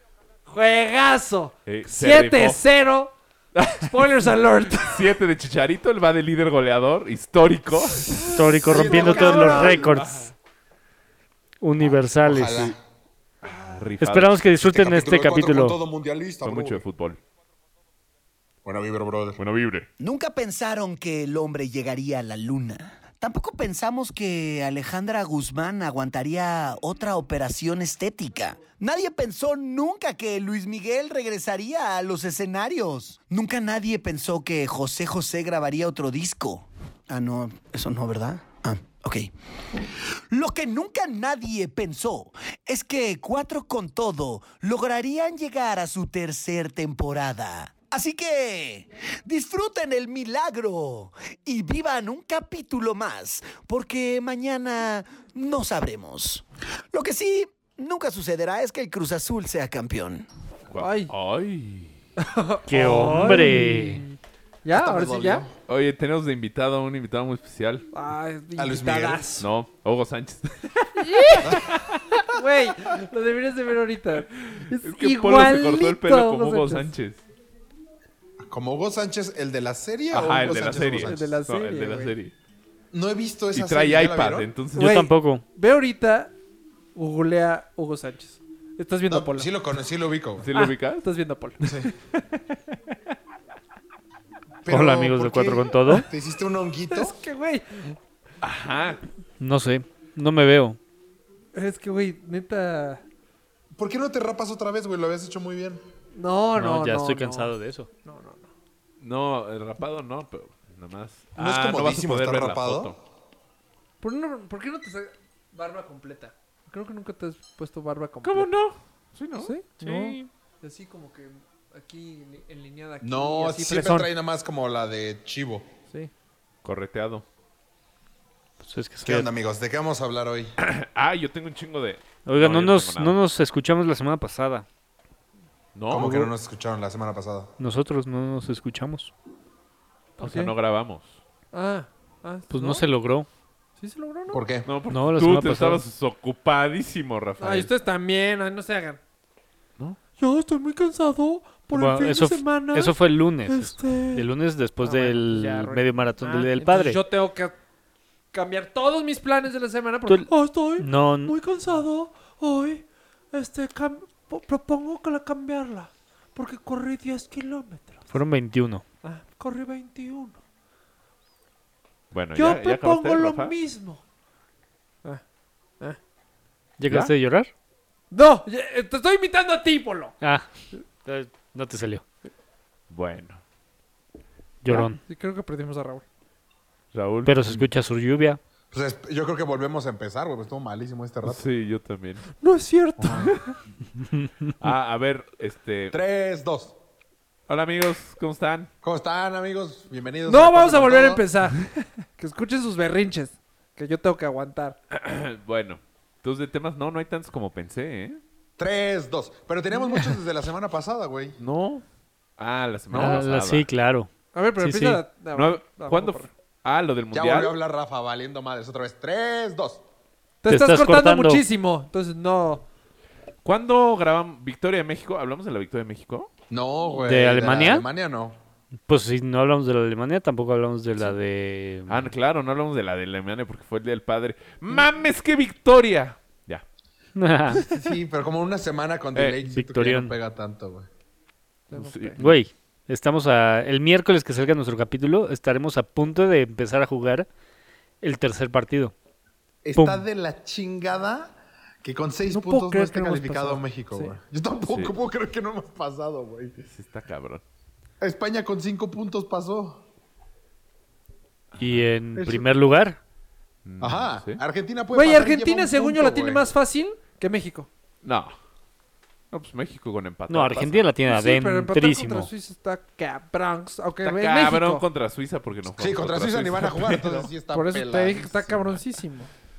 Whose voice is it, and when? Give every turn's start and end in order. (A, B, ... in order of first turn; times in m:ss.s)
0:00.5-0:03.1 A
0:01.7-0:02.6 B
0:03.6-0:04.2 B
0:03.7-0:05.1 A
0:04.7-0:08.3 B
0:07.9-0:09.9 A
0:08.2-0:10.3 C
0:08.7-0:09.9 D
0:09.4-0:10.3 B
0:11.6-0:12.8 C
0:11.8-0:12.8 D
0:13.4-0:13.9 D
0:13.5-0:14.4 B
0:14.0-0:15.8 C
0:14.6-0:16.8 D
0:16.4-0:17.2 B
0:18.6-0:19.4 D
0:19.4-0:19.9 B
0:20.0-0:39.3 E
0:40.3-1:00.3 E
1:00.7-1:02.0 B
1:00.8-1:01.1 A
1:02.2-1:05.5 A
1:02.7-1:04.0 C
1:04.7-1:05.5 D
1:05.7-1:07.9 B
1:07.9-1:09.5 A
1:08.6-1:09.2 D
1:09.4-1:12.2 B
1:11.0-1:16.9 A
1:14.3-1:17.2 B
1:18.4-1:21.4 D
1:20.1-1:22.3 B
1:20.7-1:22.2 A
1:22.9-1:24.5 D
1:23.5-1:25.0 B
1:24.8-1:26.3 A
1:24.8-1:25.4 C
1:27.0-1:29.5 A
1:29.1-1:30.5 D
1:30.4-1:31.0 B
1:30.6-1:32.6 A
1:31.6-1:31.9 D
1:34.6-1:37.2 D
1:34.7-1:36.1 C
1:36.9-1:38.0 A
1:38.4-1:39.0 B
1:39.4-1:40.8 C
1:41.5-1:43.0 A
1:43.8-1:45.8 D
1:46.1-1:47.5 A
1:46.6-1:47.9 C
1:48.0-1:48.5 A
1:49.0-1:53.0 B
1:51.4-1:53.0 D
1:54.0-1:58.5 A
1:58.2-2:00.3 B
1:59.4-2:04.1 A
2:03.0-2:05.7 D
2:06.6-2:07.2 B
2:08.6-2:09.3 C
2:09.0-2:10.5 D
2:10.6-2:13.2 B
2:12.3-2:14.7 C
2:15.8-2:16.3 B
2:15.9-2:17.5 D
2:17.6-2:19.1 C
2:20.2-2:20.5 A
2:20.2-2:21.2 B
2:21.5-2:22.9 A
2:22.5-2:23.3 C
2:23.8-2:24.4 A
2:24.3-2:24.7 D
2:24.7-2:27.7 B
2:24.9-2:25.8 C
2:27.4-2:29.0 A
2:30.2-2:34.3 A
2:31.7-2:37.0 C
2:34.8-2:37.6 A
2:38.3-2:48.1 A
2:40.8-2:41.4 C
2:48.1-2:48.8 C
2:49.0-2:50.4 A
2:52.1-2:53.6 B
2:52.4-2:54.0 A
2:56.8-2:57.5 C
2:56.9-2:57.1 B
2:58.1-3:00.2 A
3:00.2-3:02.0 C
3:02.9-3:03.4 B
3:04.6-3:05.0 C
3:04.7-3:06.0 A
3:06.9-3:07.7 B
3:07.2-3:08.4 C
3:08.7-3:11.4 D
3:11.2-3:12.2 B
3:12.4-3:13.6 A
3:13.0-3:13.4 D
3:14.6-3:16.0 B
3:15.9-3:16.7 D
3:17.5-3:18.7 B
3:18.8-3:21.2 D
3:20.3-3:24.8 A
3:24.9-3:28.2 B
3:28.6-3:31.4 D
3:31.4-3:31.8 B
3:32.4-3:33.7 B
3:32.9-3:35.0 C
3:34.3-3:36.3 A
3:35.3-3:37.5 B
3:37.1-3:39.8 D
3:40.4-3:42.7 A
3:40.5-3:41.4 C
3:43.4-3:46.3 B
3:46.5-3:48.4 D
3:47.0-3:47.9 C
3:48.9-3:52.0 C
3:51.9-3:56.6 B
3:57.2-3:57.6 C
3:57.5-3:57.8 B
3:57.6-4:00.9 D
3:59.5-4:00.1 C
4:01.7-4:02.2 A
4:01.7-4:02.4 B
4:02.2-4:07.3 C
4:08.0-4:08.9 C
4:09.6-4:16.7 D
4:09.8-4:10.0 C
4:12.3-4:14.2 A
4:14.7-4:14.9 B
4:16.7-4:17.4 B
4:18.0-4:19.8 D
4:21.5-4:21.8 B
4:21.6-4:23.0 C
4:22.2-4:22.5 D
4:23.6-4:24.4 B
4:23.8-4:26.5 D
4:24.9-4:27.7 A
4:28.0-4:28.3 B
4:29.3-4:30.9 B
4:30.3-4:32.3 C
4:31.0-4:34.8 A
4:34.0-4:37.3 B
4:35.7-4:38.7 D
4:37.5-4:39.3 A